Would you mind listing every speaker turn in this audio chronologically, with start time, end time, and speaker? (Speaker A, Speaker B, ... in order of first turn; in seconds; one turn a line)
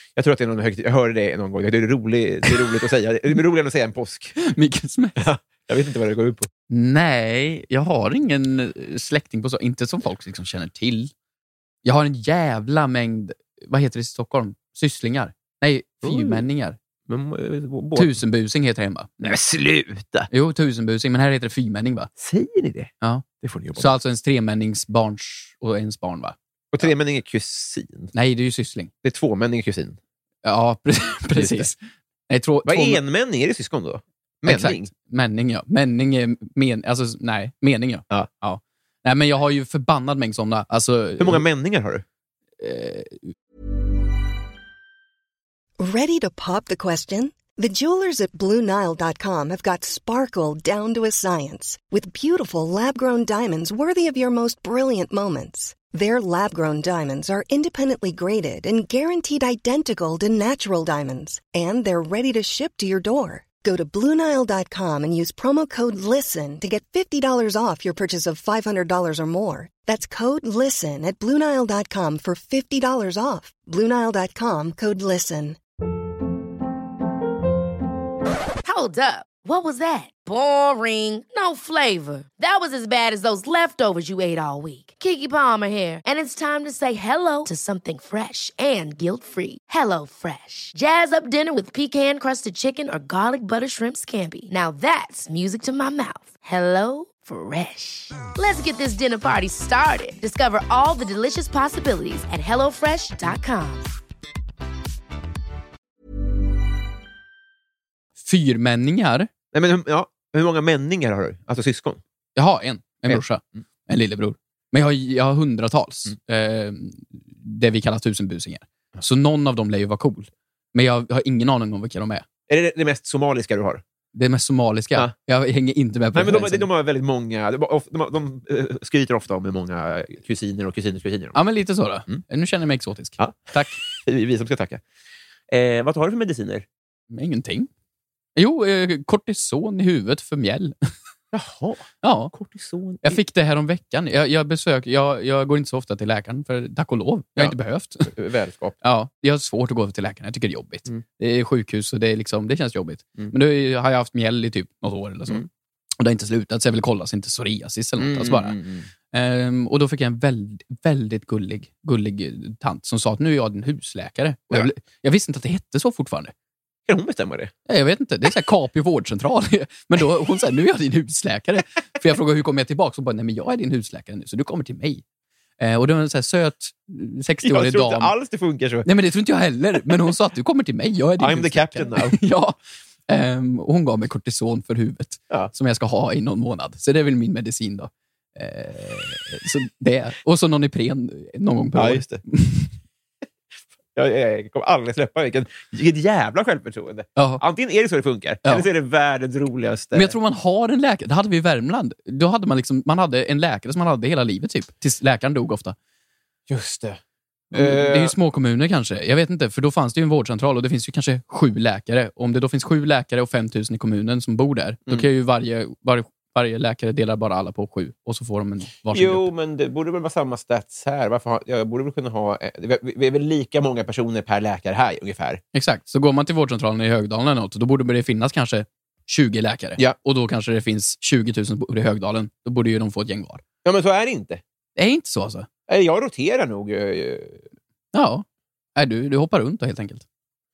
Speaker A: 0.2-4.4
Speaker B: 4.4-5.2
Speaker A: 5.2-6.5
Speaker B: 6.7-11.1
Speaker B: 11.8-16.8
Speaker A: 16.0-16.4
Speaker A: 17.1-18.2
Speaker B: 17.9-19.4
Speaker A: 19.2-20.3
Speaker B: 20.3-22.1
Speaker A: 22.2-23.9
Speaker B: 23.8-26.9
Speaker A: 26.7-28.1
Speaker B: 28.1-28.9
Speaker A: 29.0-30.0
Speaker B: 30.4-31.8
Speaker A: 31.4-31.7
Speaker B: 32.3-33.0
Speaker A: 32.7-34.9
Speaker B: 34.5-41.4
Speaker A: 41.2-42.0
Speaker B: 42.6-43.3
Speaker C: 45.8-75.6
Speaker D: 78.6-103.9
Speaker B: 108.2-109.3
Speaker A: 109.5-112.0
Speaker B: 112.4-122.2
Speaker A: 122.5-123.8
Speaker B: 124.1-126.7
Speaker A: 126.2-131.4
Speaker B: 131.3-133.8
Speaker A: 133.2-134.8
Speaker A: 135.5-136.7
Speaker B: 137.1-137.7
Speaker B: 138.4-140.9
Speaker A: 141.3-143.2
Speaker B: 142.0-142.3
Speaker B: 143.0-148.1
Speaker A: 148.1-148.8
Speaker B: 148.8-155.4
Speaker B: 156.0-158.6
Speaker A: 158.0-158.9
Speaker B: 159.1-166.3
Speaker A: 166.9-167.5
Speaker B: 167.7-175.0
Speaker B: 175.6-178.1
Speaker A: 177.4-178.9
Speaker B: 178.8-192.7
Speaker A: 181.2-182.2
Speaker A: 191.8-192.2
Speaker A: 193.9-200.2
Speaker B: 197.2-197.4
Speaker B: 199.9-205.8
Speaker A: 206.5-207.0
Speaker A: 207.5-208.2
Speaker B: 207.5-219.3
Speaker A: 218.9-225.4
Speaker B: 225.5-233.4
Speaker A: 233.6-234.4
Speaker B: 234.8-235.5
Speaker A: 235.7-237.4
Speaker B: 237.9-238.2
Speaker B: 238.8-240.0